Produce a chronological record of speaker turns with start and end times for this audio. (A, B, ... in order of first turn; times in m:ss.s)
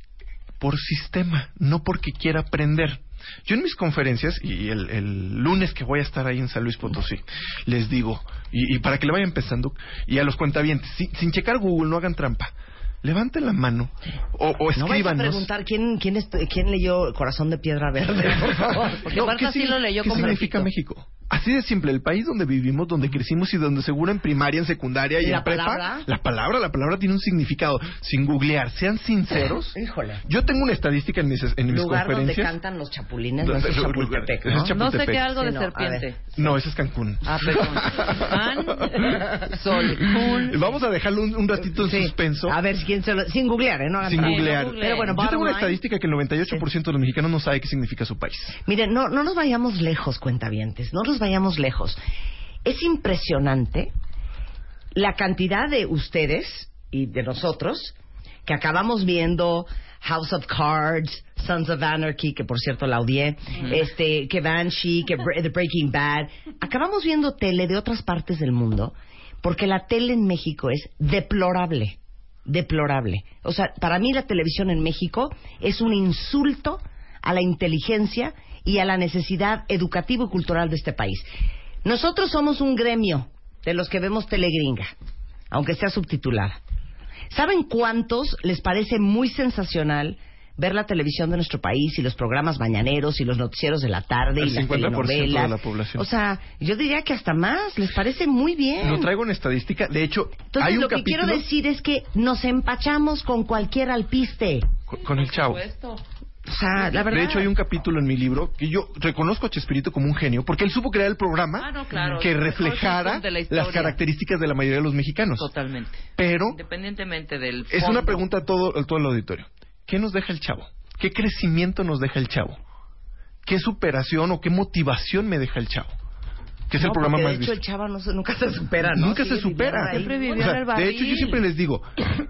0:00.6-0:15.5 A
0:14.7-0:19.1 B
0:18.3-0:32.5 A
0:19.0-0:20.7 C
0:25.2-0:26.1 B
0:29.7-0:30.2 B
0:31.7-0:34.8 B
0:33.4-0:35.4 A
0:34.7-0:36.2 C
0:35.3-0:36.1 B
0:36.3-0:42.6 A
0:37.2-0:40.7 C
0:41.7-0:45.8 B
0:44.0-0:48.6 A
0:44.2-0:45.2 C
0:48.6-0:52.0 B
0:52.6-0:53.9 B
0:54.9-0:57.9 B
0:58.4-1:21.3 B
1:21.8-1:24.9 B
1:25.5-1:26.6 B
1:27.3-1:39.1 B
1:34.4-1:36.1 A
1:38.8-1:41.4 A
1:40.5-1:44.7 B
1:44.9-1:45.6 A
1:45.0-1:46.0 C
1:46.5-1:47.5 B
1:47.1-1:55.5 A
1:51.6-1:54.0 C
1:55.4-1:58.2 C
1:56.2-1:56.6 A
1:57.7-2:02.6 A
2:03.4-2:05.9 A
2:06.7-2:07.6 A
2:06.8-2:10.2 B
2:08.8-2:11.9 A
2:09.9-2:11.4 C